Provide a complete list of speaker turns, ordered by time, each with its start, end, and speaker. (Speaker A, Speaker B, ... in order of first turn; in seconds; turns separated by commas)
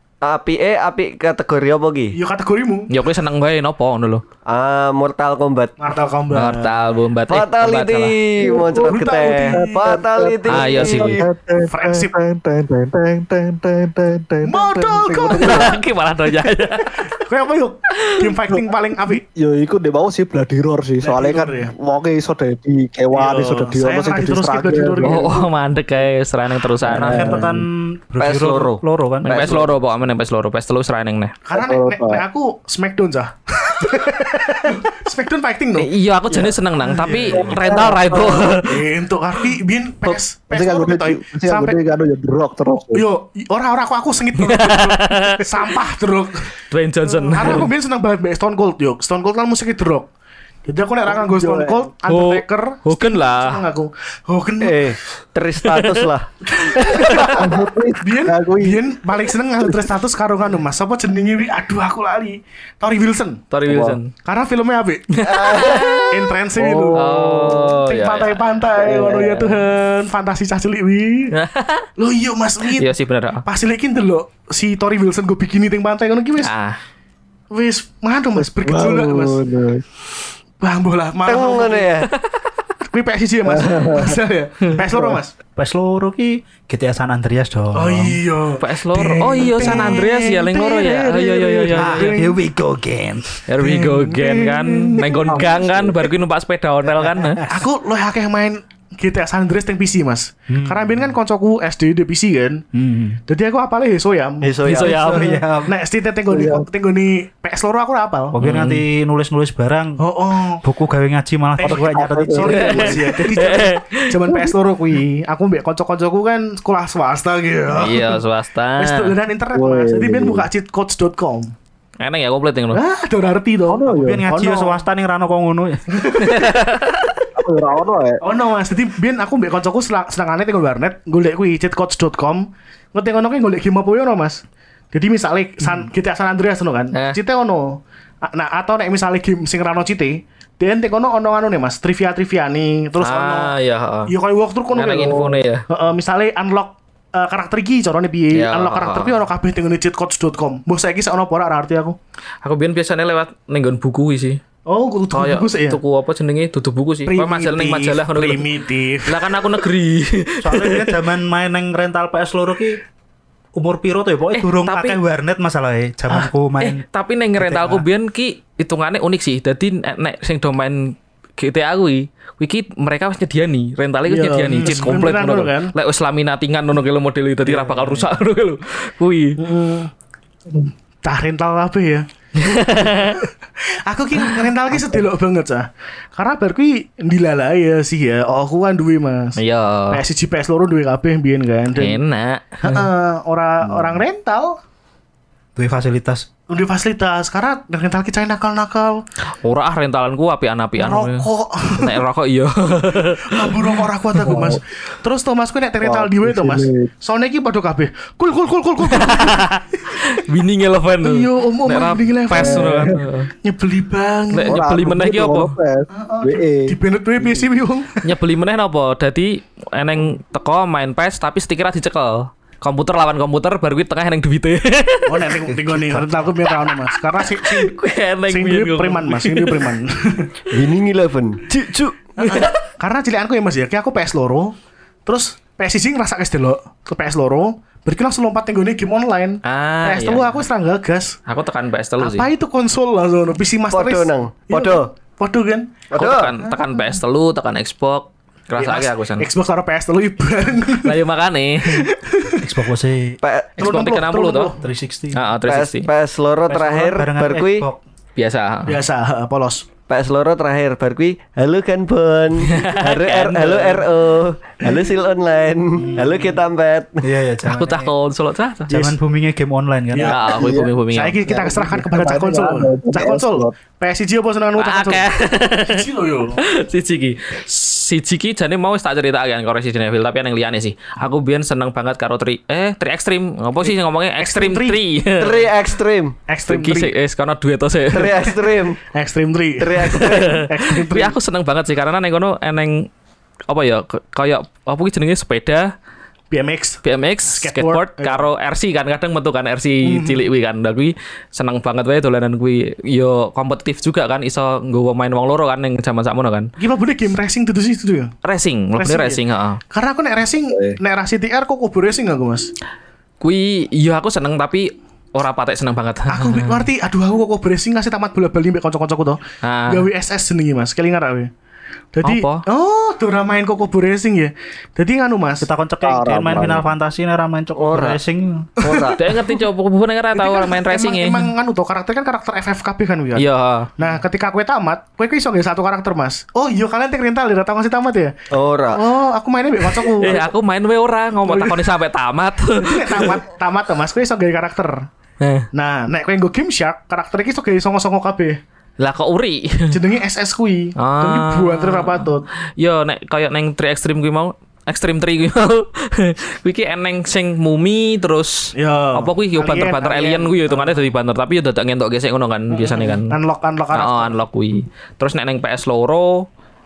Speaker A: 0.2-2.1, Speaker B: 2.1-2.9, Speaker C: 2.9-4.2, Speaker A: 4.5-5.7, Speaker B: 5.8-6.8, Speaker C: 6.3-8.2, Speaker A: 7.3-11.3, Speaker D: 8.4-15.8, Speaker B: 8.7-9.8, Speaker C: 10.5-11.2, Speaker B: 11.7-12.1, Speaker B: 14.4-15.7, Speaker C: 15.4-17.0, Speaker B: 17.0-19.2, Speaker D: 18.5-25.4, Speaker B: 21.0-21.7, Speaker B: 23.1-25.4, Speaker C: 25.0-27.4, Speaker D: 26.9-27.5, Speaker E: 26.9-29.5, Speaker A: 28.2-29.7, Speaker C: 29.2-31.4, Speaker B: 31.4-35.9, Speaker D: 31.5-32.2, Speaker C: 35.8-38.8, Speaker B: 36.8-37.5, Speaker D: 37.3-38.6, Speaker B: 38.5-41.8, Speaker D: 40.1-43.1, Speaker B: 42.9-46.5, Speaker C: 44.4-45.7, Speaker C: 46.7-47.7, Speaker B: 47.1-50.1, Speaker B: 50.6-54.9, Speaker D: 51.0-51.9, Speaker C: 52.1-53.6, Speaker A: 54.6-57.3, Speaker C: 55.6-56.1, Speaker B: 56.5-63.4, Speaker D: 57.3-58.8, Speaker D: 59.6-59.9, Speaker C: 63.5-64.1, Speaker D: 63.7-64.0, Speaker B: 64.2-65.2, Speaker C: 65.2-66.1, Speaker A: 65.2-66.3, Speaker B: 66.1-71.3, Speaker D: 66.5-67.8, Speaker C: 66.9-68.6, Speaker D: 68.8-69.6, Speaker C: 71.3-71.9, Speaker B: 72.0-72.9, Speaker C: 72.8-73.4, Speaker B: 73.4-76.5, Speaker C: 76.4-76.8, Speaker B: 77.5-79.4, Speaker D: 78.4-79.8, Speaker B: 80.6-81.9, Speaker A: 81.2-82.1, Speaker B: 82.9-85.3, Speaker D: 83.5-84.2, Speaker D: 84.9-85.2, Speaker E: 85.5-88.2, Speaker B: 87.7-92.4, Speaker C: 88.6-92.2, Speaker D: 89.6-89.9, Speaker E: 91.7-93.5, Speaker C: 93.5-97.4, Speaker B: 93.6-95.7, Speaker D: 95.3-95.9, Speaker B: 97.4-102.6, Speaker E: 100.5-101.1, Speaker E: 102.7-103.2, Speaker B: 103.3-104.8, Speaker A: 104.4-105.4, Speaker C: 104.6-105.4, Speaker E: 104.9-105.7, Speaker B: 105.6-108.3, Speaker D: 106.3-106.7, Speaker E: 108.3-110.0, Speaker C: 108.4-108.8, Speaker B: 110.0-110.6, Speaker E: 110.6-113.0, Speaker B: 111.6-118.2, Speaker D: 111.6-112.9, Speaker C: 112.5-114.0, Speaker C: 117.7-119.1, Speaker B: 118.8-121.5, Speaker D: 119.5-120.5, Speaker C: 122.0-122.8, Speaker B: 122.7-124.8, Speaker D: 123.7-124.2, Speaker E: 123.8-126.1, Speaker B: 125.9-126.5, Speaker C: 126.2-127.0, Speaker D: 127.3-128.2, Speaker B: 128.2-143.6, Speaker C: 136.9-137.2, Speaker C: 143.0-144.1, Speaker B: 144.1-152.0, Speaker C: 144.7-145.6, Speaker C: 148.3-149.2, Speaker C: 152.4-154.4, Speaker B: 154.7-155.8, Speaker C: 155.1-158.5, Speaker B: 157.1-159.4, Speaker C: 159.0-161.0, Speaker E: 160.4-162.8, Speaker E: 163.5-166.8, Speaker C: 164.3-165.0, Speaker C: 166.6-179.4, Speaker E: 167.4-167.8, Speaker B: 174.1-175.7, Speaker E: 174.6-175.0, Speaker B: 177.4-178.1, Speaker B: 179.4-179.9, Speaker B: 181.0-182.1, Speaker C: 182.4-183.2, Speaker B: 182.7-189.4, Speaker C: 189.4-190.0, Speaker B: 189.9-192.0, Speaker C: 191.8-192.8, Speaker B: 192.6-194.6, Speaker E: 195.6-196.3, Speaker B: 196.5-199.0, Speaker C: 199.4-203.8, Speaker B: 200.8-202.0, Speaker B: 202.9-210.0, Speaker D: 204.2-204.6, Speaker D: 205.8-206.9, Speaker C: 208.9-213.3, Speaker B: 211.0-214.6, Speaker D: 212.3-213.0, Speaker C: 214.3-215.6, Speaker D: 214.5-217.5, Speaker B: 215.9-218.0, Speaker C: 218.0-225.3, Speaker B: 225.1-227.7, Speaker E: 225.5-226.3, Speaker C: 226.6-229.7, Speaker B: 228.3-230.3, Speaker A: 230.5-232.0, Speaker B: 232.2-234.5, Speaker C: 232.2-232.6, Speaker B: 235.1-241.2, Speaker C: 239.4-240.4, Speaker C: 241.3-242.3, Speaker B: 242.0-245.7, Speaker A: 243.7-244.9, Speaker A: 245.9-246.3, Speaker C: 245.9-249.2, Speaker B: 246.4-247.0, Speaker B: 248.6-251.0, Speaker C: 250.8-251.9, Speaker B: 251.6-252.5, Speaker E: 252.4-253.2, Speaker A: 253.2-253.5, Speaker B: 253.6-254.6, Speaker C: 253.6-254.5, Speaker E: 254.6-255.2, Speaker C: 255.1-255.9, Speaker A: 255.4-257.7, Speaker E: 256.5-257.8, Speaker C: 258.2-258.7, Speaker B: 258.6-259.6, Speaker A: 259.9-267.0, Speaker C: 262.4-263.8, Speaker E: 265.8-266.4, Speaker E: 267.0-267.9, Speaker C: 267.4-268.8, Speaker E: 268.7-270.2, Speaker C: 270.0-271.2, Speaker D: 270.0-270.7, Speaker B: 270.9-275.0, Speaker D: 271.2-273.5, Speaker C: 274.6-275.9, Speaker B: 275.6-276.4, Speaker C: 276.4-285.5, Speaker B: 283.6-284.8, Speaker A: 285.2-286.1, Speaker B: 286.3-286.9, Speaker C: 286.5-288.4, Speaker A: 287.9-288.8, Speaker B: 288.9-291.1, Speaker A: 289.6-290.4, Speaker C: 289.9-292.9, Speaker C: 293.5-295.7, Speaker B: 296.3-298.2, Speaker C: 296.8-306.5, Speaker B: 299.8-300.2, Speaker B: 306.6-308.1, Speaker C: 308.2-309.6, Speaker B: 308.8-309.2, Speaker B: 309.7-312.5, Speaker C: 313.2-316.6, Speaker B: 316.1-321.3, Speaker C: 319.4-319.9, Speaker B: 321.9-325.5, Speaker C: 322.0-322.4, Speaker E: 325.4-328.5, Speaker D: 325.8-326.7, Speaker A: 327.6-328.0, Speaker A: 328.6-329.0, Speaker B: 328.6-329.4, Speaker C: 329.0-331.3, Speaker B: 330.1-333.2, Speaker C: 333.2-333.7, Speaker B: 333.8-338.1, Speaker A: 338.3-338.8, Speaker B: 338.7-340.3, Speaker C: 339.9-343.2, Speaker B: 341.2-341.6, Speaker B: 342.5-344.9, Speaker C: 345.2-345.5, Speaker B: 345.5-348.4, Speaker C: 348.8-349.8, Speaker B: 349.7-352.2, Speaker C: 350.8-363.1, Speaker B: 358.5-360.9, Speaker B: 362.5-364.2, Speaker C: 363.7-366.2